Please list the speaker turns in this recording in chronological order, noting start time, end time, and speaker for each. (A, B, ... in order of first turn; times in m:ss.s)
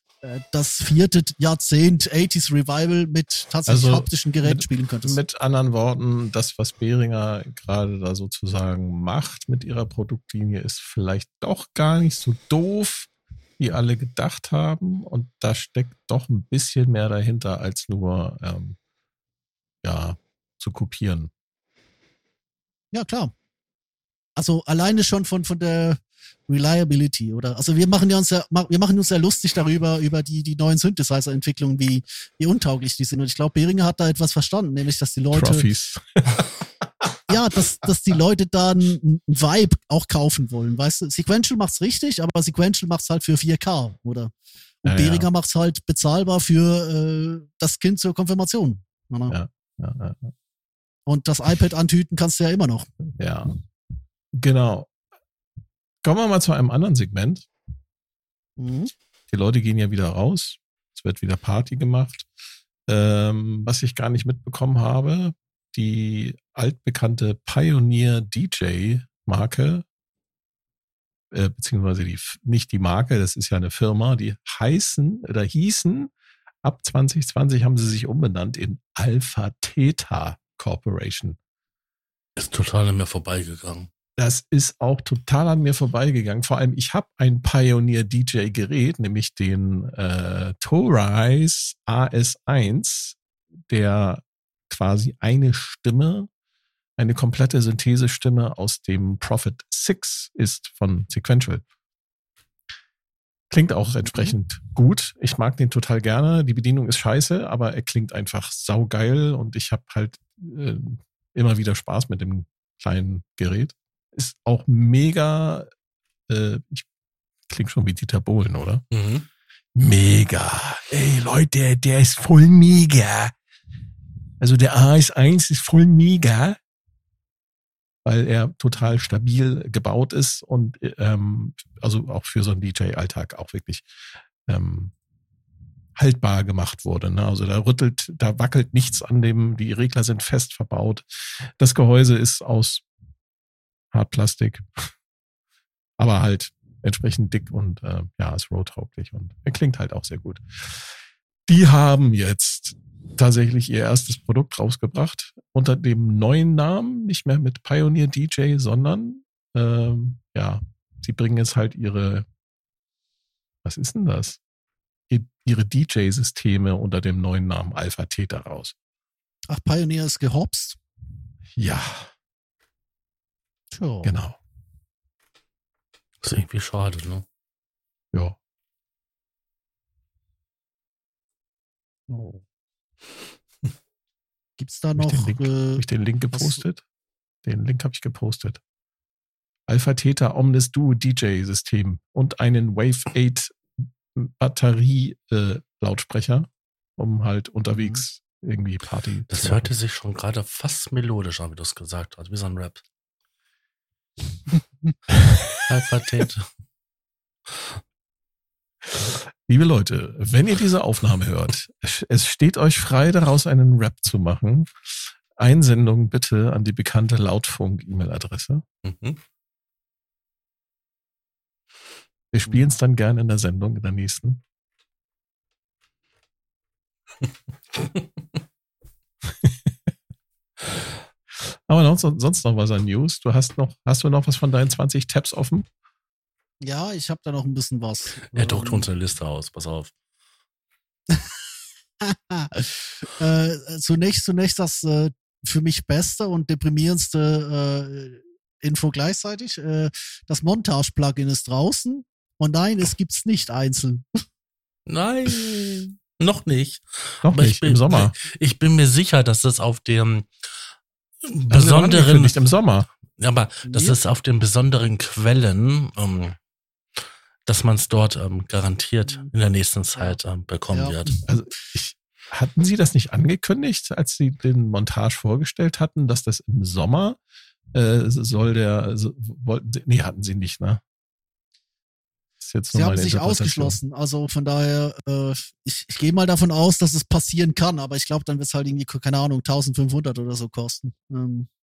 0:00.2-0:05.2 A
0:03.7-0:18.8 B
0:19.8-0:21.3 B
0:22.9-0:23.3 A
0:24.4-0:35.7 A
0:35.3-0:36.5 B
0:37.3-0:49.4 A
0:44.8-0:45.3 B
0:49.3-0:50.3 B
0:51.1-0:52.9 A
0:53.2-0:53.5 B
0:54.3-0:54.9 B
0:56.0-0:57.4 B
0:58.6-0:58.9 A
0:59.3-1:02.3 B
1:02.9-1:09.8 B
1:11.3-1:16.1 B
1:16.6-1:21.4 B
1:22.4-1:23.9 C
1:24.2-1:33.2 B
1:33.7-1:36.3 B
1:37.0-1:41.6 B
1:43.5-1:55.7 B
1:56.3-1:56.8 B
1:57.5-1:58.8 B
1:58.9-1:59.2 C
1:59.7-2:03.3 B
2:04.4-2:06.6 B
2:08.0-2:13.8 B
2:14.4-2:14.9 B
2:16.0-2:22.8 B
2:23.9-2:24.9 B
2:26.0-2:42.2 B
2:43.6-2:44.4 B
2:45.1-2:48.7 B
2:49.5-2:50.8 A
2:51.6-2:52.1 B
2:53.7-2:54.2 A
2:54.0-2:54.4 B
2:56.2-2:57.2 C
3:02.1-3:02.4 A
3:04.6-3:06.6 A
3:05.0-3:06.8 B
3:07.4-3:08.6 B
3:09.7-3:19.7 B
3:17.7-3:18.0 A
3:19.3-3:22.8 C
3:25.1-3:26.2 B
3:25.7-3:26.5 C
3:28.8-3:34.7 B
3:35.4-3:38.6 B
3:38.8-3:39.2 C
3:42.3-3:44.4 B
3:51.4-3:55.6 B
3:56.6-3:58.9 A
3:58.3-3:59.9 C
4:02.0-4:14.0 A
4:14.9-4:20.3 C
4:17.2-4:18.1 B
4:21.2-4:22.3 C
4:21.5-4:22.9 B
4:23.2-4:26.4 C
4:23.6-4:24.0 A
4:27.4-4:31.2 C
4:29.0-4:29.3 A
4:30.7-4:31.2 A
4:31.3-4:37.2 B
4:37.7-4:40.8 B
4:42.4-4:43.8 B
4:42.7-4:51.5 A